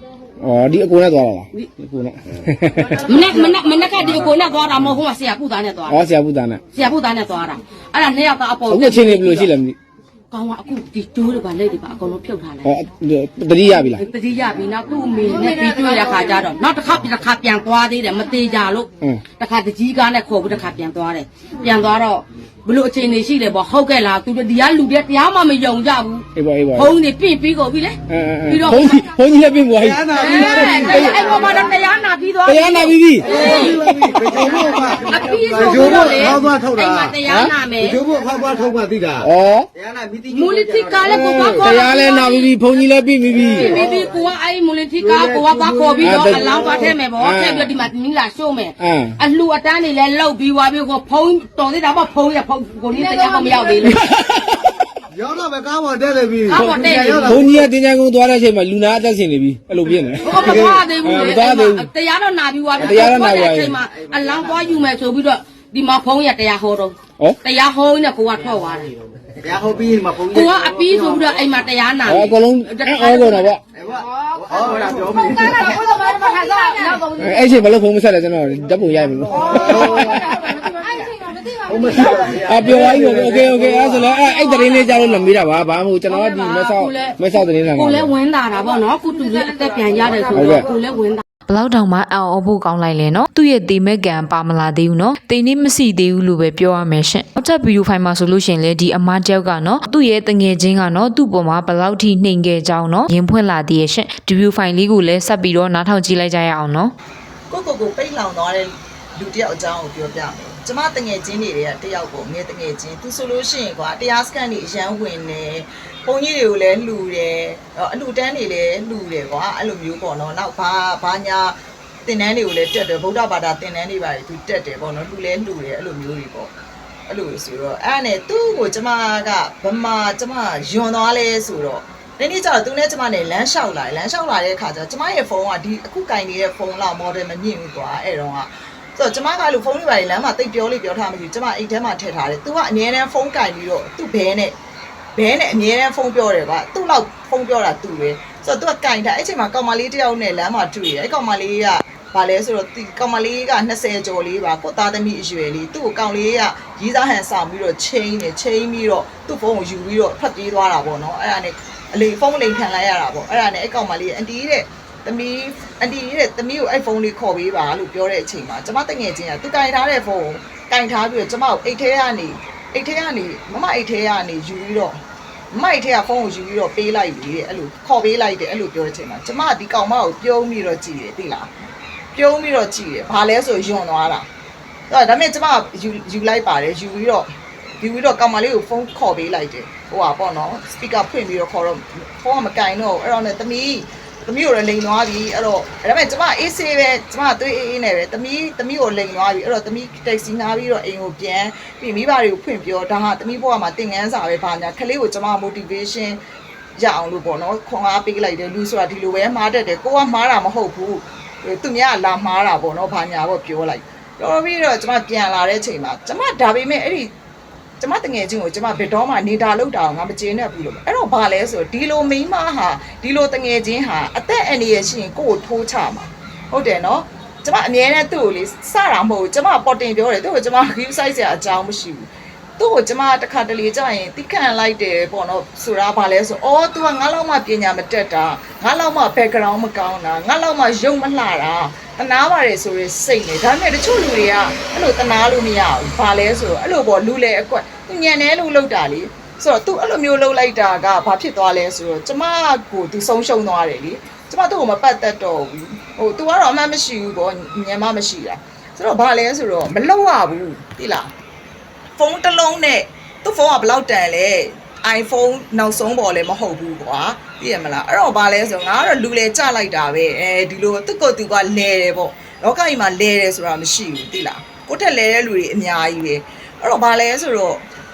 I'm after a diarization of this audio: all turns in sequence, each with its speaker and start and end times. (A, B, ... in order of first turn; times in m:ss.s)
0:00.4-0:03.1 A
0:03.0-0:06.0 B
0:05.9-0:06.6 A
0:06.7-0:09.5 B
0:08.7-0:09.8 A
0:10.3-0:12.7 B
0:12.6-0:14.0 A
0:14.0-0:29.0 B
0:26.3-0:26.9 A
0:28.1-0:31.2 A
0:29.8-0:31.4 C
0:30.1-0:38.0 B
0:32.4-0:33.4 A
0:33.2-0:41.1 C
0:39.2-0:39.7 A
0:40.3-0:42.5 B
0:41.0-0:43.8 A
0:43.4-0:54.0 B
0:43.7-0:44.0 C
0:45.1-0:46.8 C
0:46.0-0:46.5 A
0:47.2-0:47.7 A
0:48.8-0:49.2 A
0:53.8-0:54.8 A
0:55.1-0:57.4 C
0:56.4-0:57.5 B
0:56.5-1:01.9 A
1:00.2-1:08.9 B
1:02.8-1:03.8 A
1:09.4-1:10.9 C
1:10.2-1:13.6 B
1:12.0-1:13.6 A
1:13.9-1:15.6 C
1:14.6-1:17.5 B
1:17.2-1:20.3 A
1:19.3-1:21.0 B
1:21.7-1:23.5 C
1:21.9-1:22.2 B
1:22.0-1:28.1 A
1:26.1-1:31.2 B
1:30.3-1:30.7 A
1:31.5-1:46.9 D
1:47.5-2:06.5 E
2:07.1-2:24.5 E
2:25.2-2:55.0 E
2:55.5-3:01.5 E
3:02.1-3:04.2 E
3:04.9-3:26.2 E
3:26.8-3:37.1 E
3:37.8-4:21.1 E
4:22.0-4:37.6 E